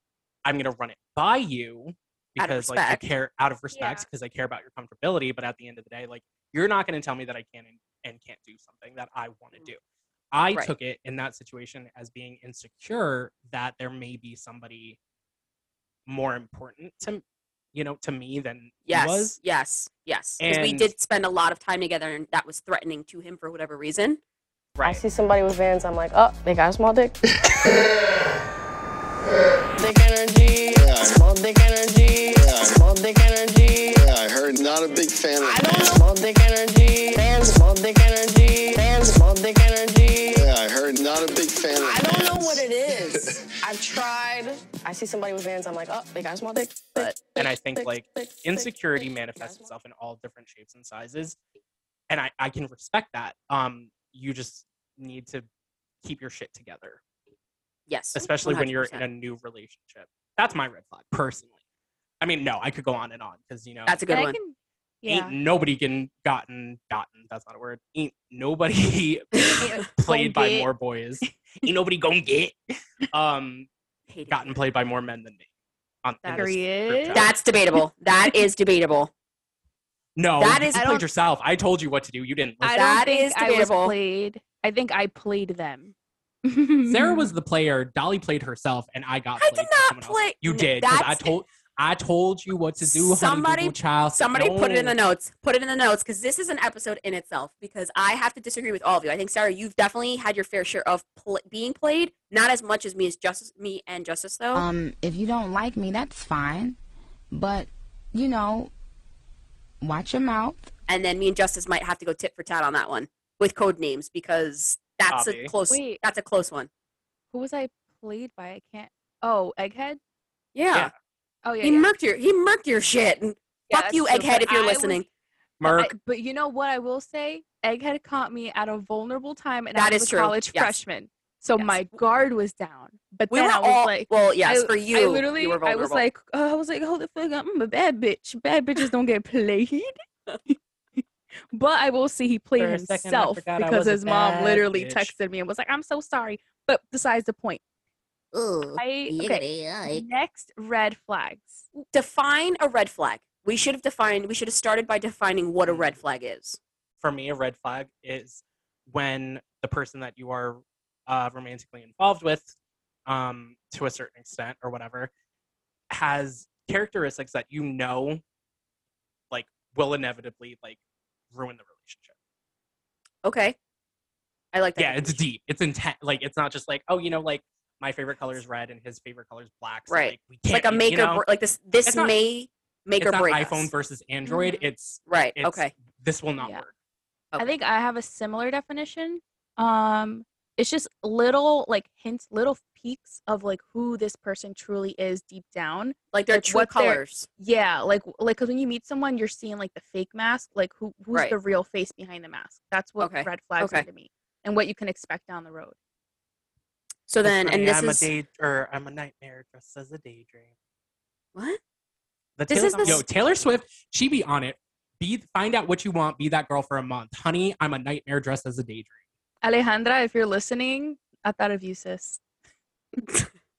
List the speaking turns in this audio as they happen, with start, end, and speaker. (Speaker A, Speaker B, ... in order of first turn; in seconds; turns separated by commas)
Speaker A: 0.5-9.8, Speaker B: 2.4-3.1, Speaker C: 3.7-4.1, Speaker A: 10.3-15.0, Speaker A: 16.1-17.2, Speaker A: 17.7-19.4, Speaker B: 18.9-24.2, Speaker A: 20.4-20.9, Speaker A: 24.8-25.0, Speaker D: 24.8-27.2, Speaker D: 29.8-34.1, Speaker E: 30.8-31.1, Speaker E: 32.4-32.8, Speaker E: 34.0-36.0, Speaker D: 35.4-40.5, Speaker E: 40.4-42.7, Speaker D: 41.8-49.7, Speaker A: 47.0-51.4, Speaker A: 52.1-55.5, Speaker A: 56.0-57.0, Speaker B: 57.9-59.0, Speaker A: 58.1-61.5, Speaker A: 62.2-64.0, Speaker B: 63.9-64.4, Speaker C: 64.1-65.4, Speaker A: 65.1-72.6, Speaker C: 69.6-70.7, Speaker A: 73.1-73.7, Speaker B: 74.1-74.6, Speaker A: 74.3-75.5, Speaker A: 76.0-77.4, Speaker C: 76.2-77.2, Speaker B: 77.1-79.1, Speaker A: 80.2-82.8, Speaker B: 80.4-80.8, Speaker C: 80.7-81.0, Speaker C: 82.6-85.9, Speaker B: 82.7-84.0, Speaker C: 86.5-87.3, Speaker A: 86.9-95.0, Speaker B: 89.4-91.3, Speaker B: 92.8-104.7, Speaker F: 104.5-106.8, Speaker F: 107.3-108.7, Speaker F: 109.8-110.7, Speaker B: 110.9-116.7, Speaker A: 115.1-115.5, Speaker C: 115.7-116.0, Speaker C: 117.3-120.0, Speaker B: 120.5-120.9, Speaker C: 121.5-121.9, Speaker B: 121.6-125.1, Speaker C: 123.7-125.0, Speaker A: 125.6-125.9, Speaker C: 125.7-139.9, Speaker B: 129.8-130.8, Speaker B: 131.6-132.0, Speaker B: 133.3-136.1, Speaker C: 141.5-147.6, Speaker A: 142.6-145.1, Speaker B: 148.3-150.0, Speaker C: 148.8-151.7, Speaker B: 151.9-156.6, Speaker A: 155.7-156.0, Speaker A: 157.0-162.5, Speaker A: 163.1-165.1, Speaker A: 165.9-168.2, Speaker A: 169.3-170.8, Speaker A: 171.3-172.2, Speaker B: 173.2-173.6, Speaker B: 174.5-175.2, Speaker A: 174.8-181.2, Speaker B: 179.9-183.7, Speaker A: 181.8-182.2, Speaker A: 183.0-186.7, Speaker C: 184.2-184.6, Speaker B: 185.1-185.7, Speaker C: 187.4-205.8, Speaker B: 196.1-197.3, Speaker B: 203.0-203.8, Speaker B: 207.1-208.1, Speaker A: 207.2-210.5, Speaker A: 212.4-219.0, Speaker B: 212.5-213.0, Speaker C: 212.6-213.0, Speaker C: 219.4-222.2